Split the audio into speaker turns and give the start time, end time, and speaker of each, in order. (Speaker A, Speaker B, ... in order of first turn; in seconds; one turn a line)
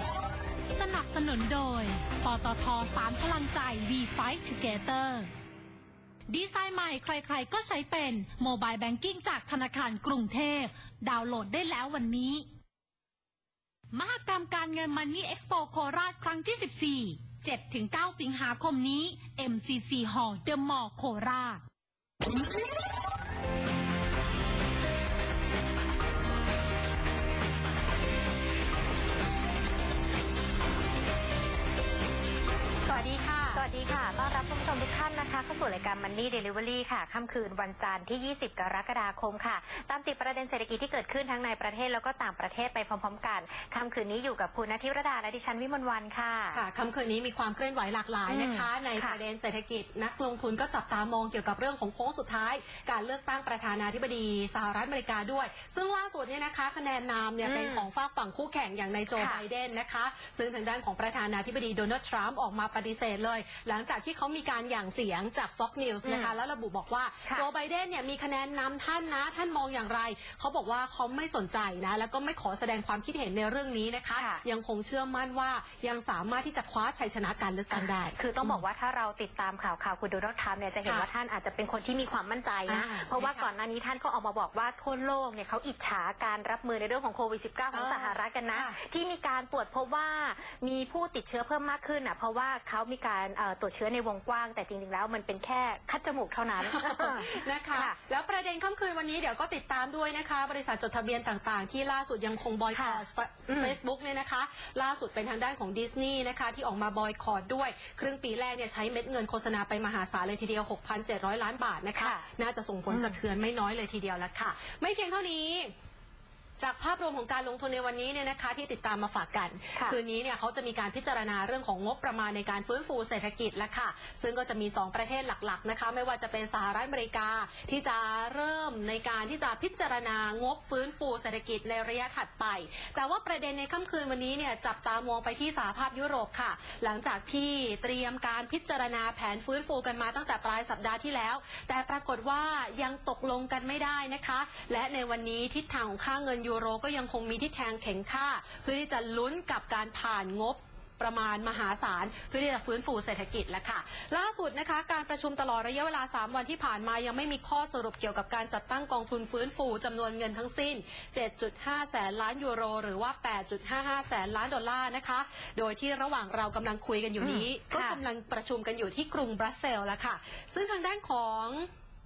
Speaker A: 0.7-5.3
Speaker A: 6.3-12.4
Speaker A: 13.9-21.6
Speaker B: 32.8-33.6
Speaker C: 33.5-46.6
Speaker B: 46.5-78.6
Speaker C: 48.3-49.2
Speaker C: 57.4-57.9
Speaker C: 59.1-59.4
Speaker C: 66.0-66.3
Speaker C: 74.1-74.4
Speaker C: 77.7-98.0
Speaker B: 82.7-83.5
Speaker B: 87.7-88.8
Speaker B: 96.6-115.7
Speaker C: 102.7-103.7
Speaker C: 112.0-112.3
Speaker C: 112.9-113.2
Speaker B: 116.6-171.7
Speaker C: 167.2-168.0